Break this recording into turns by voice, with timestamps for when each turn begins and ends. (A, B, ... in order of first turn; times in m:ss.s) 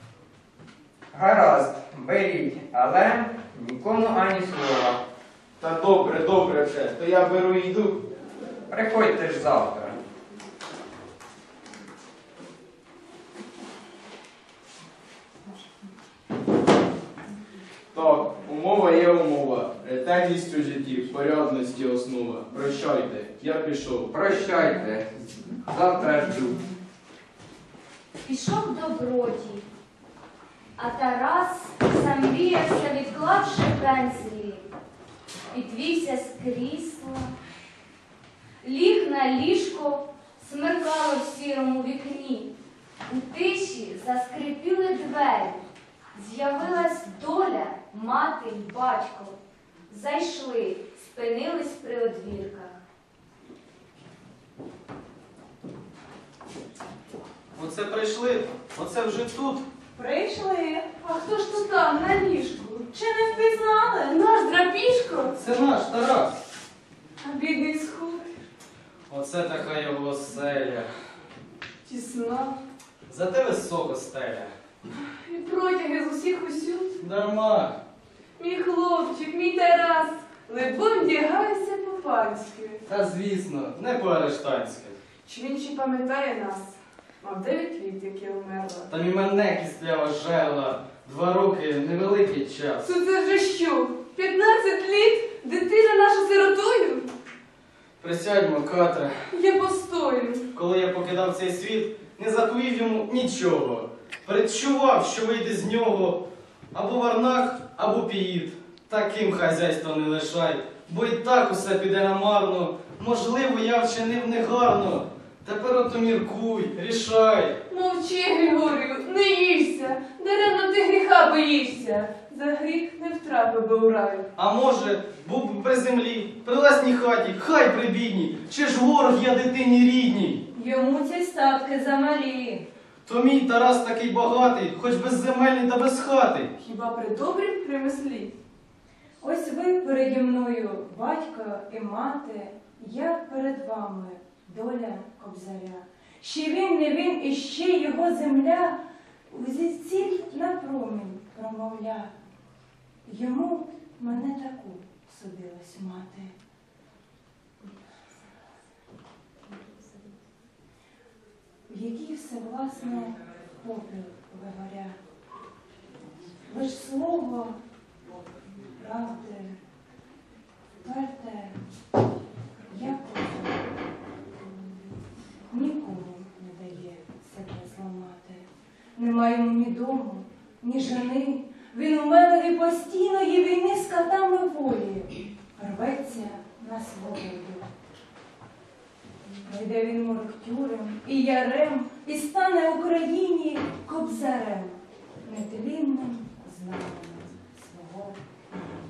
0:01.1-0:05.0 A
0:05.6-0:08.0 B
0:08.7-0:10.0 A
0:17.9-0:24.1 B
0:24.1-0:26.6 A
0:28.2-0:29.7 C
0:30.8-0:34.7 C
0:35.5-0:37.3 C
0:38.6-0:42.5 C
0:43.1-0:45.6 C
0:46.1-0:49.4 C
0:49.9-0:52.8 C
0:57.6-0:59.7 D
1:00.0-1:00.9 E
1:01.0-1:02.9 F
1:03.0-1:04.0 E
1:03.4-1:05.3 F
1:05.4-1:06.4 D
1:07.2-1:08.3 F
1:09.1-1:10.9 D
1:11.8-1:12.6 F
1:13.1-1:14.5 D
1:15.1-1:17.0 F
1:17.0-1:17.8 D
1:18.4-1:22.8 F
1:22.9-1:25.0 D
1:25.2-1:28.9 F
1:28.9-1:32.9 D
1:32.9-1:37.1 F
1:38.0-1:39.2 D
1:39.3-1:40.4 F
1:40.5-1:57.6 D
1:57.7-2:04.2 F
2:04.4-2:10.4 D
2:10.6-2:12.6 E
2:13.1-2:16.5 D
2:16.6-2:18.3 F
2:19.2-2:28.8 E
2:29.3-2:32.1 E
2:33.1-2:36.3 E
2:41.7-2:45.0 E
2:46.5-2:47.6 E
2:48.8-2:49.6 E
2:50.8-2:51.6 E
2:52.7-2:53.6 E
2:55.5-2:58.4 E
2:59.0-3:07.6 E
3:09.5-3:18.2 E